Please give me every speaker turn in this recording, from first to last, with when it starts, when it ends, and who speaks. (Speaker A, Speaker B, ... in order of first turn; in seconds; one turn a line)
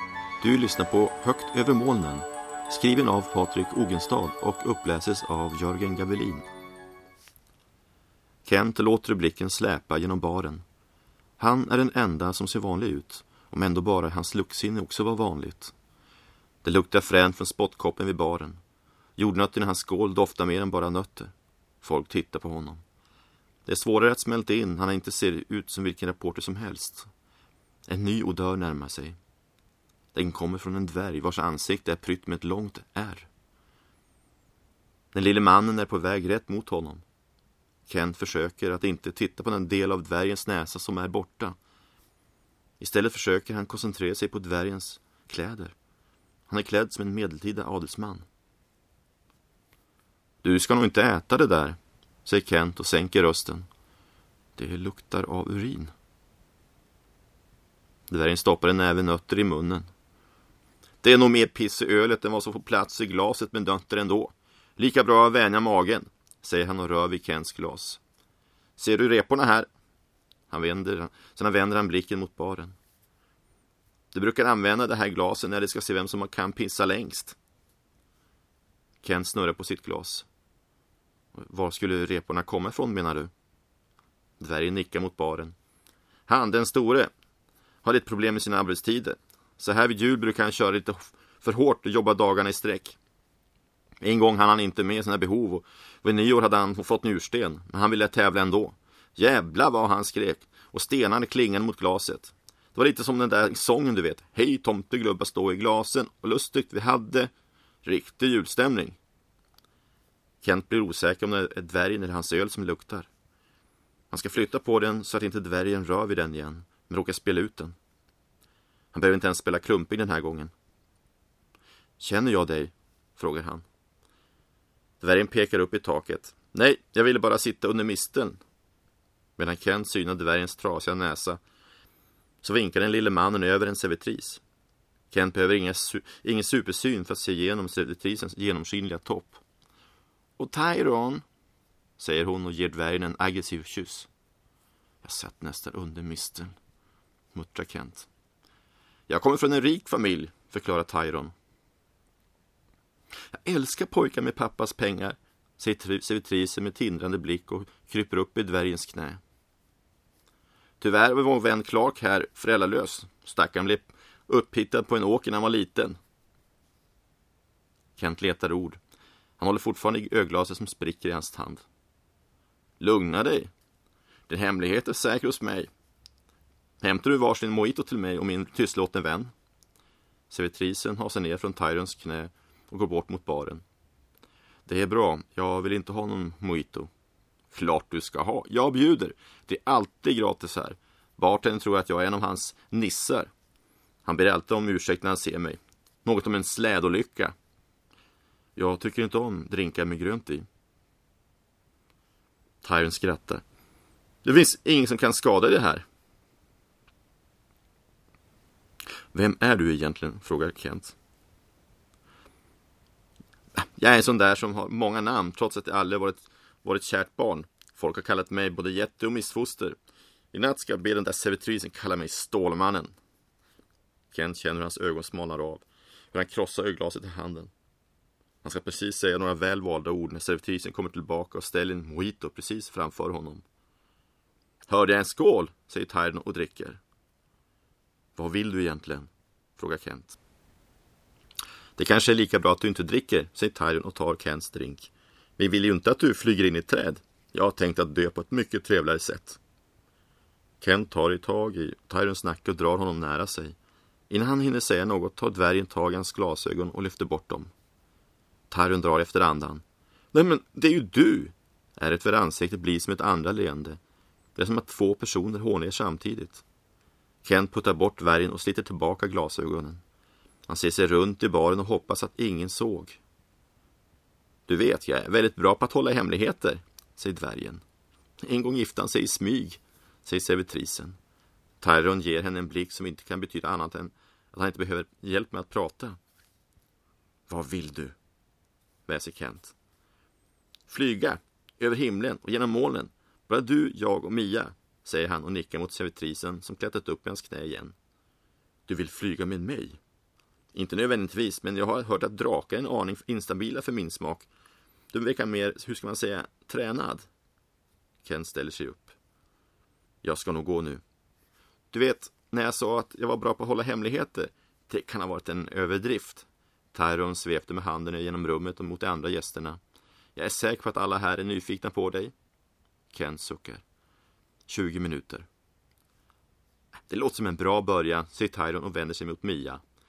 Speaker A: 0.4-6.5
Speaker A: 8.4-10.6
Speaker A: 11.4-15.7
Speaker A: 16.6-18.6
Speaker A: 19.2-22.8
Speaker A: 23.6-27.1
Speaker A: 27.9-29.2
Speaker A: 30.1-33.3
Speaker A: 35.1-37.0
Speaker A: 37.9-41.5
Speaker A: 42.8-45.7
Speaker A: 46.5-48.2
Speaker A: 50.4-53.6
Speaker A: 54.5-55.9
Speaker A: 58.1-59.9
Speaker A: 61.0-68.0
Speaker A: 68.8-69.7
Speaker A: 70.5-72.8
Speaker A: 74.1-77.4
Speaker A: 79.0-80.2
Speaker A: 81.3-83.3
Speaker A: 84.4-85.5
Speaker A: 86.3-87.1
Speaker A: 87.8-93.0
Speaker A: 94.0-107.3
Speaker A: 107.8-109.0
Speaker A: 110.4-113.1
Speaker A: 114.1-117.7
Speaker A: 118.9-120.5
Speaker A: 122.0-123.6
Speaker A: 125.0-128.4
Speaker A: 129.4-131.4
Speaker A: 132.4-134.4
Speaker A: 135.1-139.4
Speaker A: 140.4-141.2
Speaker A: 142.0-144.1
Speaker A: 145.0-146.5
Speaker A: 147.3-148.1
Speaker A: 149.1-151.3
Speaker A: 153.3-159.2
Speaker A: 160.8-166.0
Speaker A: 168.0-168.8
Speaker A: 169.4-171.6
Speaker A: 172.8-173.5
Speaker A: 174.3-175.7
Speaker A: 176.8-179.3
Speaker A: 180.3-183.6
Speaker A: 184.6-186.9
Speaker A: 187.5-193.3
Speaker A: 194.0-197.3
Speaker A: 198.6-200.4
Speaker A: 202.6-203.4
Speaker A: 204.2-205.8
Speaker A: 209.1-210.9
Speaker A: 213.6-219.8
Speaker A: 220.3-222.9
Speaker A: 224.1-227.5
Speaker A: 228.4-233.4
Speaker A: 234.7-236.8
Speaker A: 238.2-240.2
Speaker A: 241.8-249.4
Speaker A: 250.6-253.6
Speaker A: 254.1-257.5
Speaker A: 258.5-263.8
Speaker A: 264.4-266.4
Speaker A: 267.2-269.8
Speaker A: 270.5-273.0
Speaker A: 274.5-277.6
Speaker A: 278.2-280.9
Speaker A: 281.6-286.0
Speaker A: 287.3-287.9
Speaker A: 288.9-289.5
Speaker A: 290.7-297.7
Speaker A: 298.7-299.8
Speaker A: 300.5-304.3
Speaker A: 304.9-307.1
Speaker A: 308.0-308.9
Speaker A: 310.0-310.8
Speaker A: 311.7-319.6
Speaker A: 320.1-322.1
Speaker A: 322.9-323.6
Speaker A: 324.5-325.3
Speaker A: 326.9-329.6